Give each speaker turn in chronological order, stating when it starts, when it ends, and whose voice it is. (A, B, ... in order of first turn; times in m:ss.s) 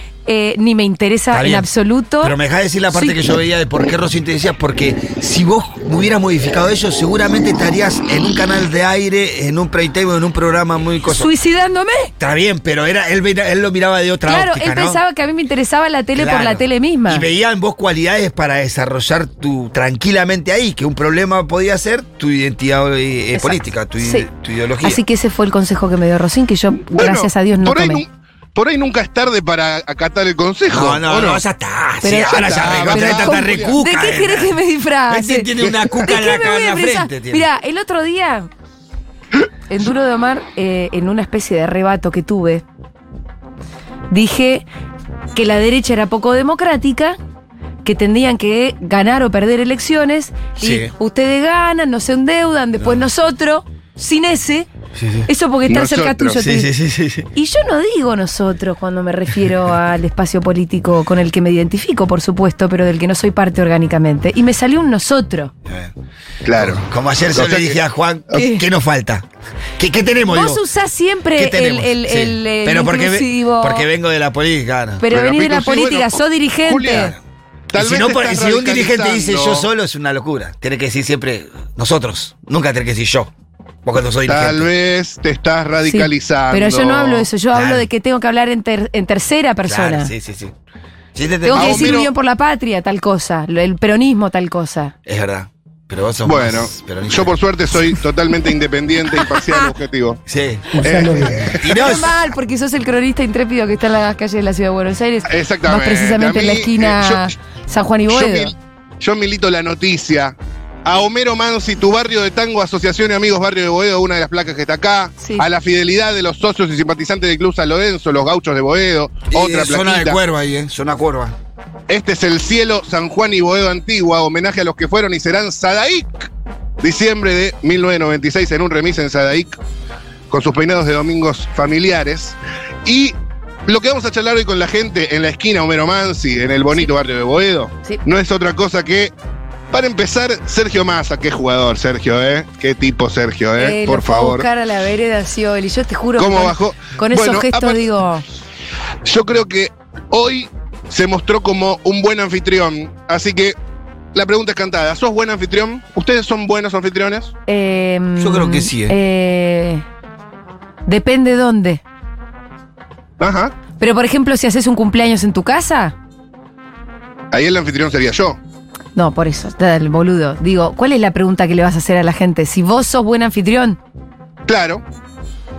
0:00.2-0:02.4 A
0:01.3-0:01.7 B
0:02.2-0:11.3 B
0:02.9-0:03.2 A
0:11.1-0:12.1 A
0:12.2-0:15.0 B
0:14.2-0:17.2 A
0:16.2-0:25.0 B
0:23.4-0:24.3 A
0:24.8-0:28.0 A
0:26.9-0:31.4 C
0:30.7-0:37.5 B
0:32.0-0:38.5 A
0:32.2-0:33.8 C
0:39.7-0:42.6 A
0:44.1-0:44.7 A
0:45.4-0:47.2 A
0:47.8-0:54.7 A
0:50.6-0:50.9 B
0:55.0-0:55.3 B
0:55.3-0:56.7 A
0:55.7-0:56.4 C
0:56.4-0:57.3 B
0:57.3-1:05.5 A
1:05.7-1:05.9 B
1:06.4-1:07.8 C
1:06.6-1:09.2 B
1:08.3-1:08.6 A
1:09.8-1:10.6 B
1:10.3-1:13.9 A
1:11.4-1:15.0 B
1:15.0-1:17.2 A
1:15.1-1:17.2 C
1:17.7-1:19.7 C
1:17.7-1:23.3 B
1:23.8-1:24.7 B
1:24.3-1:27.3 C
1:25.9-1:30.1 A
1:27.5-1:27.9 B
1:29.6-1:30.5 B
1:31.2-1:32.0 B
1:31.4-1:34.9 A
1:31.5-1:32.1 C
1:35.0-1:37.9 B
1:36.2-1:40.2 C
1:40.3-1:42.2 B
1:40.8-1:41.8 C
1:41.6-1:48.5 A
1:45.3-1:47.3 C
1:48.1-2:00.2 C
1:55.2-1:55.5 A
1:59.3-2:01.4 B
2:01.9-2:06.3 C
2:06.8-2:09.6 C
2:10.3-2:13.2 C
2:13.7-2:19.1 C
2:19.7-2:24.5 C
2:23.6-2:28.2 A
2:26.2-2:27.9 C
2:29.0-2:33.6 C
2:34.1-2:37.3 C
2:37.5-2:39.8 A
2:38.2-2:39.0 B
2:40.9-2:41.8 A
2:43.2-2:43.5 C
2:43.8-2:45.9 A
2:47.3-2:48.4 C
2:49.0-2:53.8 A
2:54.5-2:54.8 C